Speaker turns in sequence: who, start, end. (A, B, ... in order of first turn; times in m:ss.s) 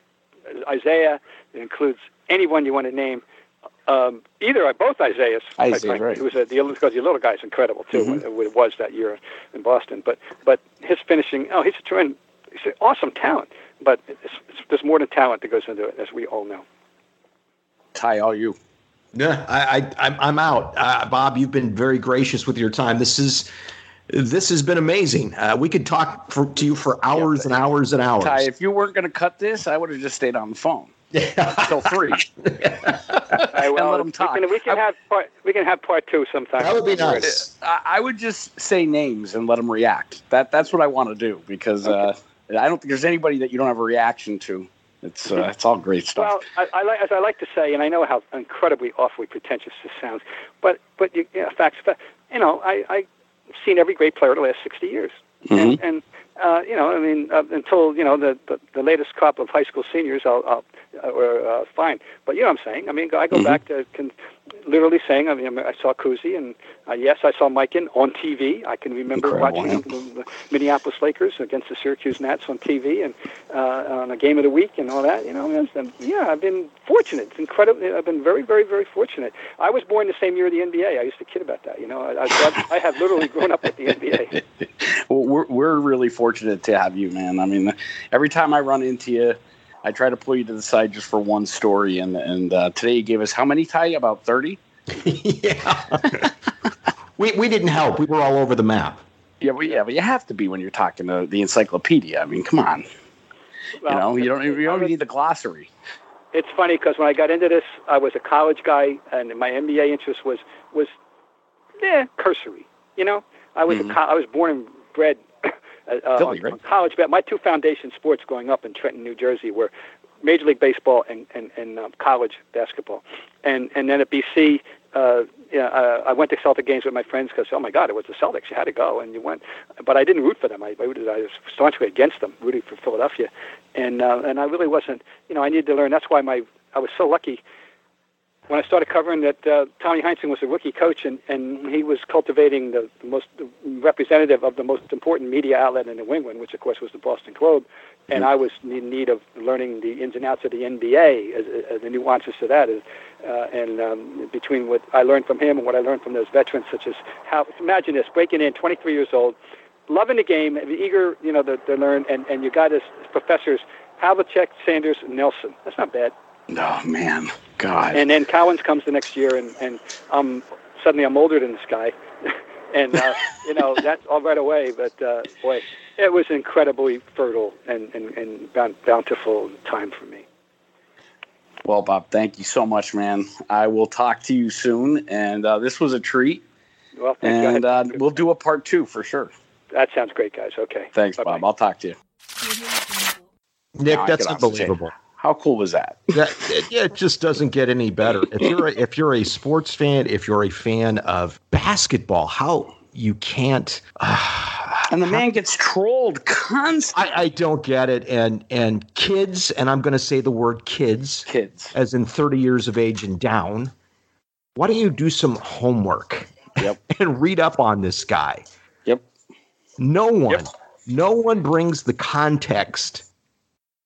0:00.5-0:03.2 A
0:03.9-0:16.6 A
0:05.6-0:06.2 B
0:07.9-0:08.2 B
0:17.9-0:18.6 B
0:19.1-0:23.5 C
0:24.1-0:28.5 C
0:27.2-0:27.4 B
0:28.2-0:30.9 B
0:31.1-0:33.5 C
0:31.5-0:32.2 B
0:33.3-0:34.8 B
0:33.5-0:37.4 A
0:36.6-0:37.4 C
0:37.2-0:46.4 B
0:46.2-0:53.1 A
0:53.6-1:04.1 A
0:55.5-0:55.8 B
1:03.3-1:03.6 B
1:04.6-1:24.4 A
1:09.1-1:09.8 B
1:24.8-1:34.6 B
1:34.9-1:36.3 C
1:37.2-1:39.0 C
1:39.4-1:42.8 B
1:43.8-1:44.9 A
1:43.9-1:45.7 B
1:46.3-1:50.9 A
1:51.8-1:59.7 A
1:53.7-1:53.9 B
1:56.2-1:56.6 B
2:00.2-2:17.4 A
2:18.5-2:39.4 A
2:39.9-2:46.1 A
2:46.5-2:48.0 B
2:47.9-3:00.2 A
3:01.6-3:06.4 B
3:07.0-3:08.2 A
3:07.2-3:09.3 B
3:09.7-3:11.4 A
3:11.0-3:12.0 B
3:13.8-3:14.9 C
3:13.9-3:16.2 B
3:16.1-3:25.3 C
3:24.9-3:27.1 B
3:26.9-3:33.7 C
3:31.3-3:31.7 B
3:34.6-3:38.4 C
3:39.8-3:43.1 C